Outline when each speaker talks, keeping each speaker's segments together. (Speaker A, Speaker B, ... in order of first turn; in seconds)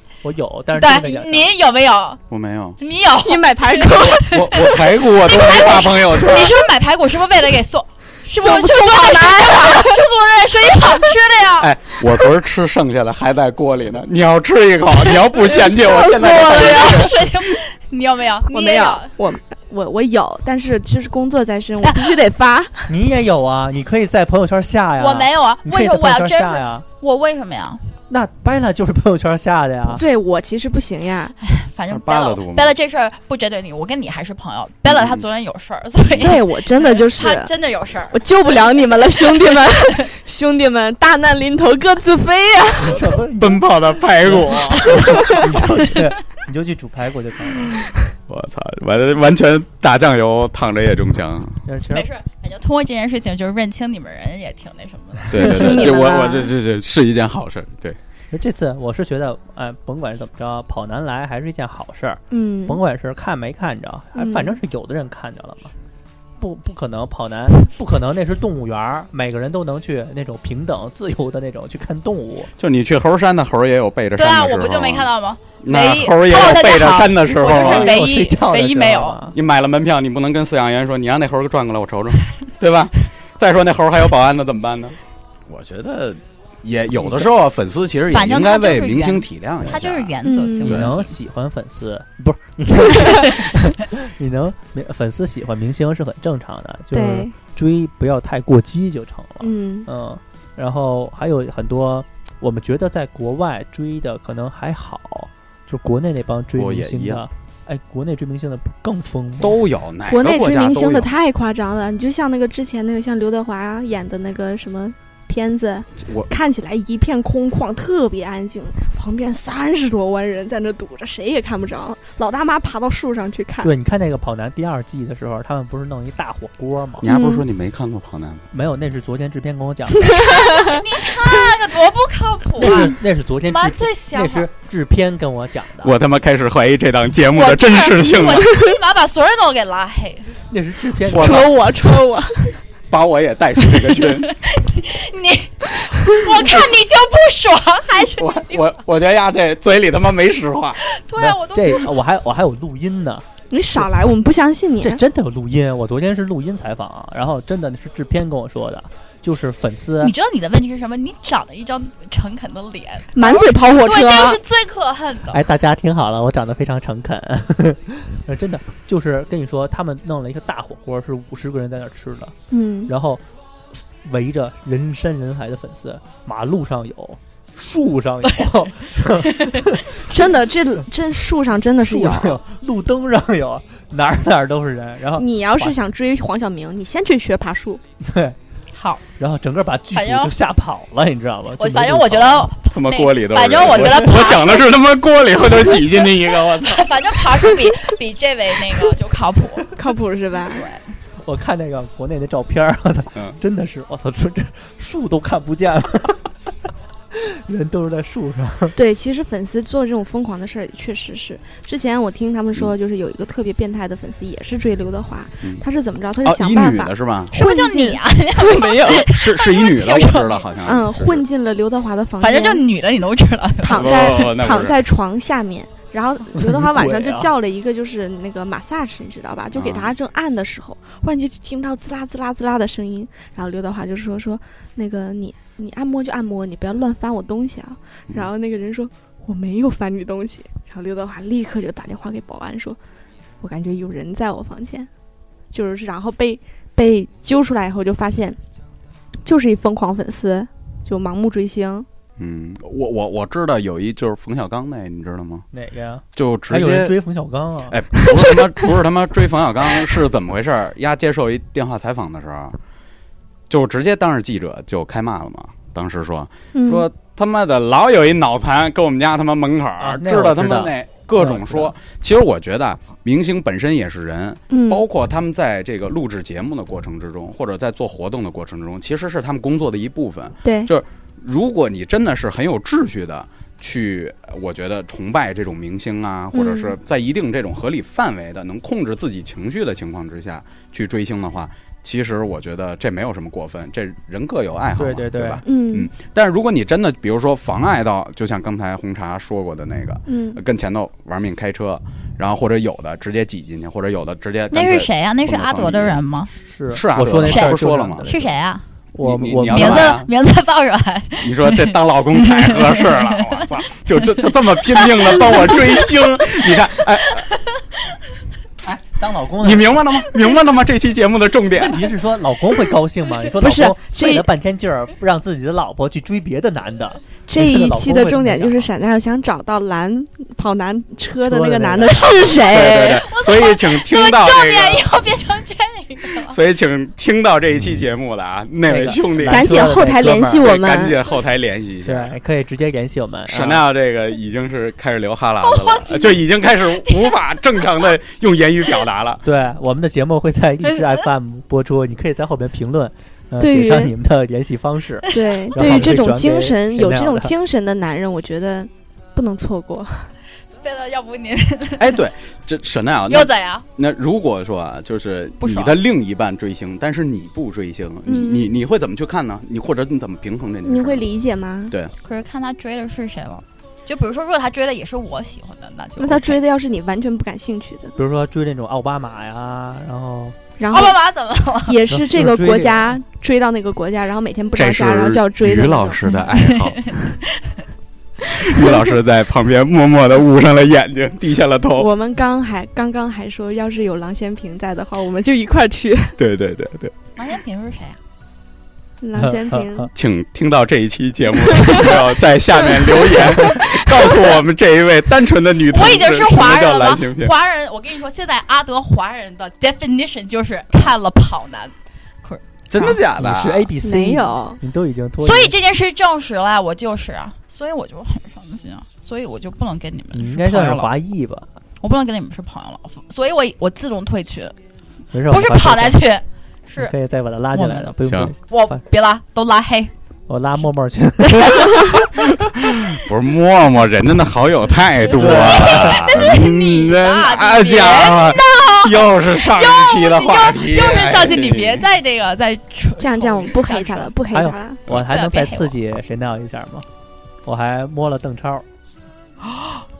Speaker A: 0.2-1.5, 22.9-26.9, 28.1-30.1, 42.8-47.8, 51.6-52.1, 58.3-65.7, 66.4-72.5, 77.4-79.4, 87.0-87.3, 90.6-109.6, 123.6-127.1, 128.5-130.2, 132.6-135.9, 140.5-141.5, 151.2-153.9, 154.8-160.1, 165.3-172.3, 172.9-173.2, 173.7-180.1, 181.8-185.8, 188.0-188.4, 189.2-192.5, 193.7-194.2, 201.2-206.3, 207.1-208.8, 226.3-227.3, 255.5-257.8, 269.8-271.7, 294.8-295.4, 306.3-308.3, 308.9-310.0, 318.6-319.8, 321.5-328.7, 331.2-332.4, 338.7-340.5, 341.9-343.7, 349.2-357.3, 378.0-380.4, 381.9-383.0, 399.2-399.9, 413.2-415.5, 420.1-421.5, 425.1-426.0, 426.8-428.8, 430.3-432.1, 435.2-436.1, 444.3-446.9, 447.4-448.7
Speaker B: 0.8-2.2, 2.8-11.7, 15.9-19.1, 21.8-22.1, 25.0-27.8, 31.4-40.0, 51.9-56.0, 74.2-79.2, 88.1-91.1, 130.1-134.5, 137.3-140.2, 144.0-148.8, 150.8-151.9, 160.0-165.4, 188.7-189.0, 189.9-190.3, 191.6-194.7, 196.6-199.8, 200.5-200.9, 217.3-220.5, 222.2-224.1, 304.5-306.3, 307.2-307.5, 308.1-308.6, 309.5-315.7, 333.1-336.4, 345.4-346.2, 346.8-347.7, 360.6-362.0, 363.1-363.6, 365.4-365.8, 372.0-376.4, 380.7-381.8, 386.1-387.6, 397.2-398.0, 405.7-413.0, 415.2-420.9, 421.8-424.5, 425.3-426.9, 427.5-429.9, 431.4-431.7, 435.2-444.1, 445.1-445.8, 449.4-449.9
Speaker C: 2.3-2.8, 3.9-6.6, 11.6-17.2, 31.9-32.7, 34.9-35.2, 43.4-45.1, 48.3-51.6, 55.3-58.0, 72.6-75.1, 75.6-78.0, 79.3-85.0, 85.5-90.9, 106.5-107.2, 109.4-111.1, 116.0-116.3, 127.0-128.4, 135.8-138.6, 141.1-141.5, 142.9-144.3, 148.1-150.8, 192.7-196.9, 216.2-217.3, 219.0-221.2, 223.7-224.8, 229.5-229.9, 252.2-255.5, 256.1-256.9, 257.7-262.6, 263.5-306.0, 306.7-308.1, 309.0-310.1, 311.2-317.3, 319.4-321.9, 332.3-334.9, 336.3-342.2, 343.3-349.2, 361.8-371.1, 371.7-371.9, 384.5-387.1, 388.4-391.9, 396.2-396.9, 399.9-407.3, 412.7-413.7, 428.0-428.3, 432.4-441.9
Speaker D: 3.2-4.3, 8.3-10.0, 15.3-17.1, 18.5-22.9, 29.9-31.3, 36.2-37.5, 38.1-43.1, 45.0-45.4, 55.4-56.5, 62.3-62.8, 64.2-64.6, 90.2-90.8, 96.9-97.3, 99.4-99.9, 110.1-123.7, 127.0-127.4, 130.1-131.5, 141.1-142.6, 153.5-155.0, 163.1-164.4, 172.5-172.9, 180.0-182.4, 185.2-187.8, 199.8-200.7, 208.8-219.1, 220.7-222.6, 223.6-242.8, 243.4-244.9, 245.5-248.4, 249.2-251.9, 266.5-266.9, 274.5-274.8, 280.4-280.7, 286.3-286.8, 295.4-295.9, 300.1-300.4, 323.4-324.3, 327.3-333.0, 339.3-341.0, 353.4-353.9, 355.1-360.1, 368.1-368.5, 370.7-371.8, 376.0-378.0, 380.6-381.0, 381.7-386.0, 388.6-388.8, 391.8-396.2, 399.0-399.9, 401.6-401.9, 403.0-403.6, 413.8-414.6, 443.0-444.8